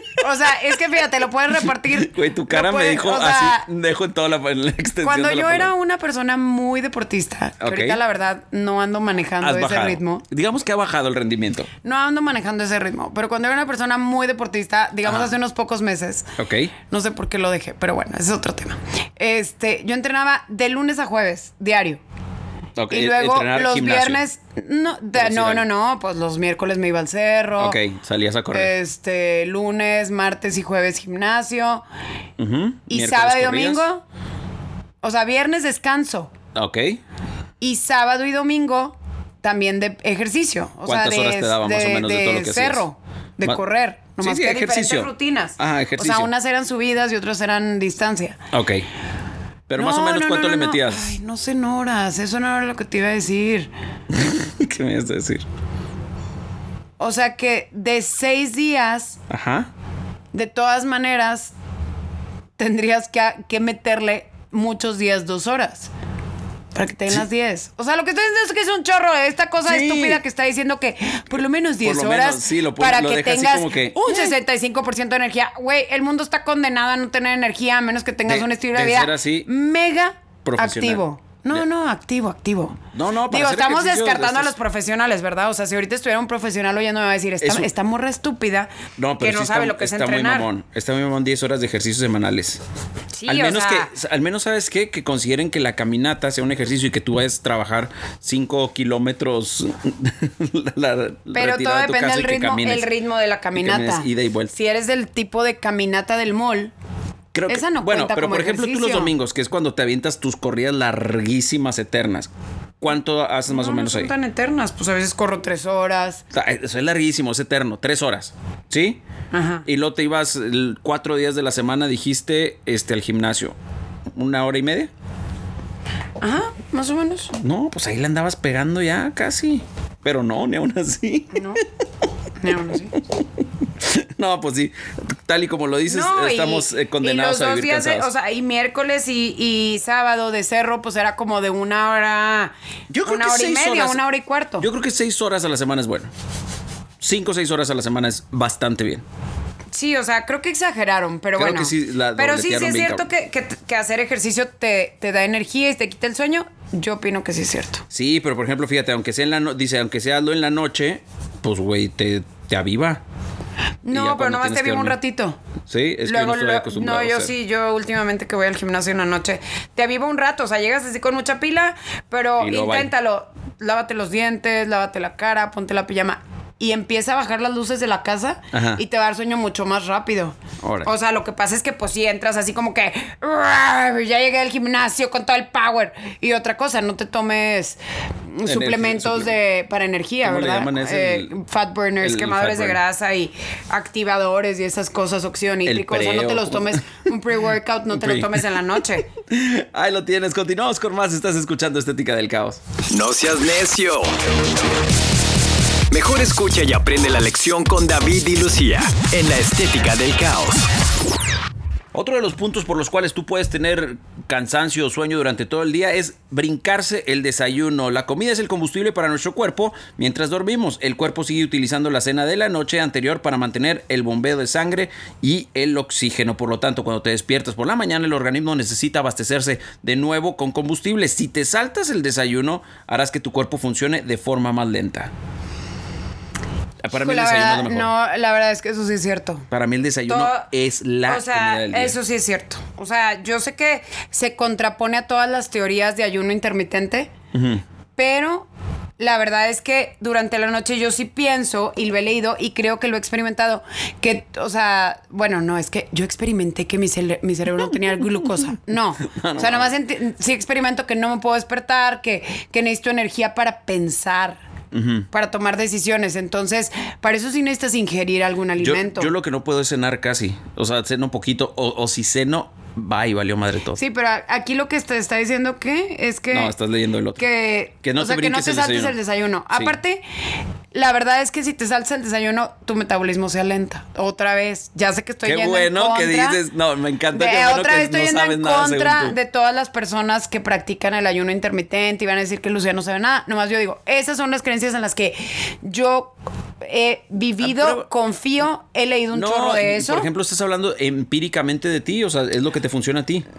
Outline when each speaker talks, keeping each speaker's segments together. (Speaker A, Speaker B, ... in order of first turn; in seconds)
Speaker A: 0.2-3.6, 5.0-10.2, 11.8-16.3, 16.9-22.0, 22.9-27.8, 28.5-31.8, 32.9-34.0, 35.0-36.3, 37.6-48.4, 49.8-53.7, 57.0-59.2, 60.3-61.5, 62.6-65.9, 66.7-82.8, 83.3-90.5, 93.1-93.9, 101.3-106.7, 107.5-109.1, 113.5-116.2, 119.3-119.7, 126.2-127.3, 131.3-131.6, 132.4-132.9, 135.9-144.7, 149.7-157.8, 163.8-165.4, 166.0-187.8, 188.3-199.1, 236.9-239.5, 240.1-240.5, 241.1-247.1, 247.9-248.5, 249.0-264.4, 265.1-269.1, 273.8-276.5, 277.2-280.0, 280.7-286.4, 287.1-300.1
Speaker B: 1.7-5.7, 7.6-8.0, 9.4-11.7, 15.0-15.3, 16.4-16.7, 22.8-24.2, 25.1-25.6, 27.6-28.7, 32.4-33.9, 36.5-37.0, 40.9-42.8, 44.2-46.3, 48.5-48.9, 49.7-51.1, 54.1-55.4, 59.3-59.7, 69.6-70.2, 71.8-74.3, 78.3-79.5, 80.4-81.6, 82.9-84.5, 87.4-87.7, 89.0-92.6, 93.3-102.9, 103.5-104.5, 107.3-114.1, 116.3-119.0, 119.6-123.5, 124.1-124.9, 127.4-131.5, 133.8-138.1, 142.9-144.0, 144.6-146.1, 147.0-149.0, 151.3-153.1, 157.9-163.0, 163.9-165.0, 165.7-167.3, 172.4-172.9, 178.5-178.8, 180.6-180.9, 188.4-189.3, 190.2-191.3, 192.0-192.8, 195.6-196.9, 197.9-198.4, 199.2-202.6, 211.9-235.1, 236.8-237.9, 239.5-242.0, 247.3-247.6, 259.0-259.7, 264.7-265.1, 268.6-273.8, 276.3-277.2, 277.8-278.9, 279.5-279.8, 285.2-289.2, 297.4-297.9, 299.1-303.2
Speaker C: 202.9-204.1, 205.9-210.7